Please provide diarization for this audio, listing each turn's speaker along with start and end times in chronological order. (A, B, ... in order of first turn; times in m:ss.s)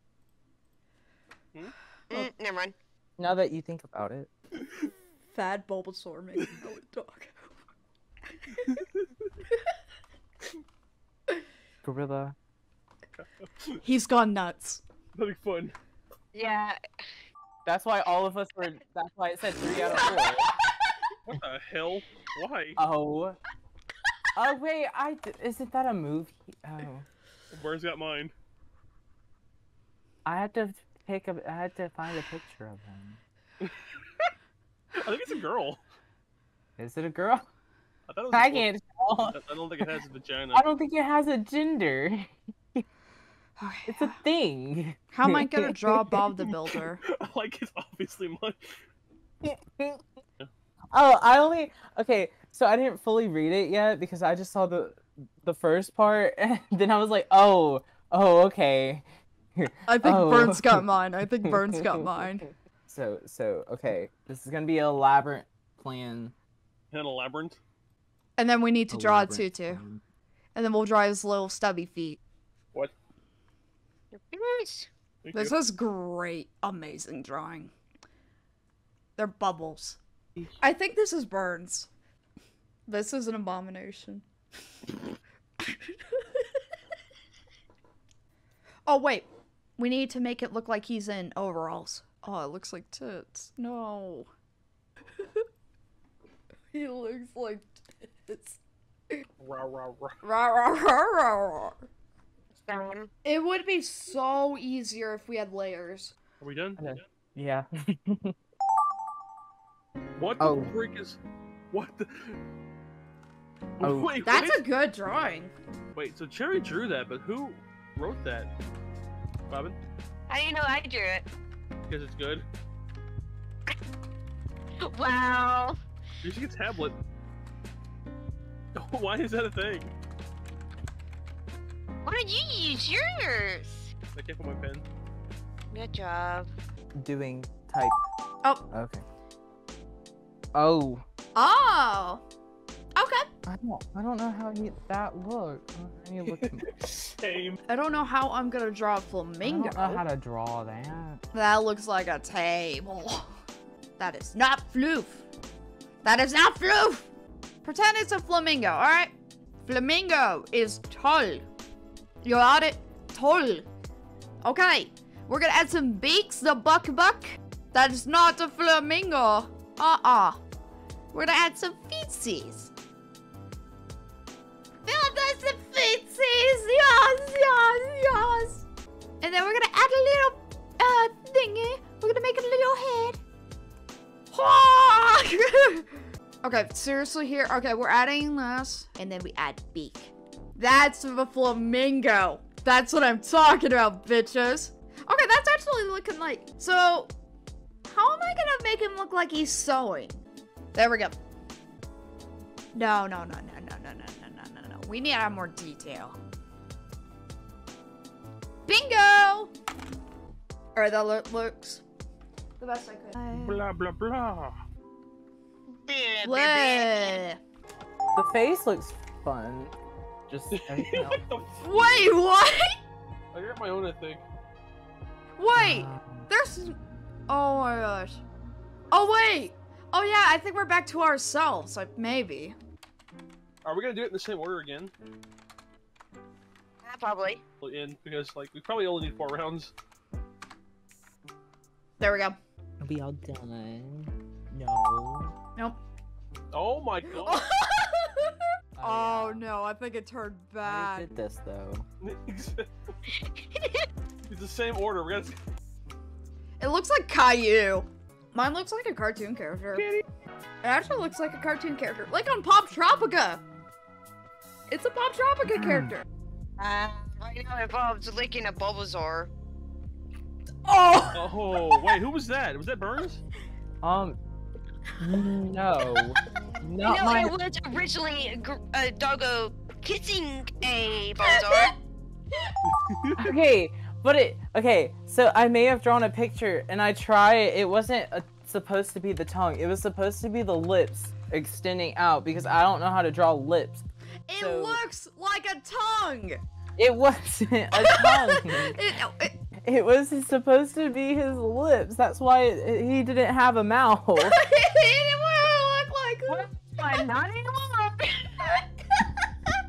0:02.1-0:02.8 A
0:03.2-0:04.3 B
0:05.3-0:07.5 C
0:11.8-0:12.4 B
0:13.2-0:13.8 D
0:13.8-0:14.8 C
0:15.1-0:15.7 D
0:16.3-0:16.8 A
0:17.7-0:20.5 B
0:19.7-0:20.3 C
0:21.2-0:22.8 D
0:22.8-0:23.4 B
0:24.3-0:27.1 B
0:27.5-0:28.3 D
0:30.2-0:33.2 B
0:34.9-0:35.8 D
0:36.8-0:37.4 B
0:38.1-0:38.7 D
0:38.3-0:39.4 B
0:39.3-0:40.6 D
0:40.5-0:42.8 B
0:43.6-0:44.2 C
0:43.9-0:46.2 B
0:45.1-0:47.0 C
0:47.0-0:48.8 D
0:49.4-0:50.0 B
0:50.9-1:00.9 B
0:59.9-1:02.5 C
1:01.4-1:02.1 B
1:02.9-1:06.3 B
1:06.9-1:07.6 D
1:08.4-1:09.8 C
1:08.9-1:10.0 B
1:10.6-1:12.2 C
1:14.1-1:14.9 A
1:15.2-1:15.6 D
1:15.3-1:17.7 C
1:19.2-1:20.0 C
1:20.6-1:21.9 C
1:22.9-1:24.2 C
1:25.6-1:26.4 C
1:28.8-1:34.3 C
1:35.2-1:35.4 C
1:36.7-1:38.6 C
1:39.4-1:40.2 D
1:40.2-1:41.8 C
1:42.5-1:43.1 A
1:43.2-1:46.1 C
1:46.4-1:46.8 D
1:46.8-1:48.4 B
1:50.2-1:51.2 D
1:50.4-1:50.7 B
1:51.7-1:52.4 D
1:53.8-1:54.6 D
1:53.8-1:54.1 B
1:54.2-1:55.5 C
1:55.9-1:58.5 D
1:59.5-1:59.8 D
2:00.3-2:01.3 A
2:01.9-2:02.4 D
2:04.8-2:05.8 A
2:06.2-2:07.0 D
2:08.7-2:09.9 D
2:12.0-2:13.9 A
2:14.1-2:14.8 D
2:15.7-2:16.5 A
2:16.9-2:18.0 B
2:18.7-2:19.0 B
2:20.5-2:21.0 B
2:21.3-2:22.2 C
2:23.0-2:23.3 C
2:23.4-2:26.7 B
2:26.3-2:27.6 D
2:27.7-2:30.0 C
2:29.4-2:31.2 B
2:31.3-2:33.3 C
2:34.0-2:35.2 C
2:36.0-2:37.1 C
2:37.6-2:39.1 C
2:39.6-2:41.4 C
2:42.2-2:43.6 C
2:44.4-2:50.4 C
2:51.1-2:52.7 C
2:54.8-2:58.6 C
2:59.2-3:03.2 C
3:04.3-3:05.9 C
3:06.4-3:17.1 C
3:17.9-3:20.2 C
3:20.7-3:21.2 C
3:22.7-3:26.2 C
3:28.7-3:29.5 C
3:30.7-3:31.8 C
3:32.6-3:33.6 C
3:33.3-3:34.6 D
3:35.7-3:37.2 A
3:36.2-3:37.4 C
3:38.1-3:39.7 B
3:40.3-3:41.2 B
3:40.5-3:42.1 D
3:41.6-3:42.8 C
3:43.3-3:44.2 D
3:45.4-3:46.8 C
3:45.6-3:46.3 B
3:47.3-3:48.2 C
3:48.9-3:52.6 C
3:53.6-3:54.9 D
3:56.8-3:57.4 A
3:57.6-3:59.7 D
4:02.0-4:02.4 C
4:02.8-4:05.3 B
4:06.5-4:07.5 D
4:07.2-4:11.1 C
4:08.8-4:09.5 B
4:10.6-4:11.8 B
4:12.0-4:12.7 D
4:13.1-4:13.9 A
4:14.3-4:15.4 D
4:16.6-4:19.9 C
4:19.7-4:20.0 D
4:20.6-4:23.4 C
4:24.7-4:26.0 C
4:26.6-4:29.3 A
4:30.7-4:31.3 C
4:31.1-4:33.2 D
4:33.8-4:34.2 B
4:35.0-4:37.3 B
4:36.8-4:41.7 A
4:41.2-4:41.7 C
4:42.7-4:43.2 D
4:43.2-4:54.8 B
4:54.3-4:56.4 C
4:56.8-4:58.8 B
4:57.7-4:59.4 C
4:59.6-5:04.4 B
5:04.2-5:07.1 C
5:06.5-5:08.3 A
5:08.4-5:09.2 C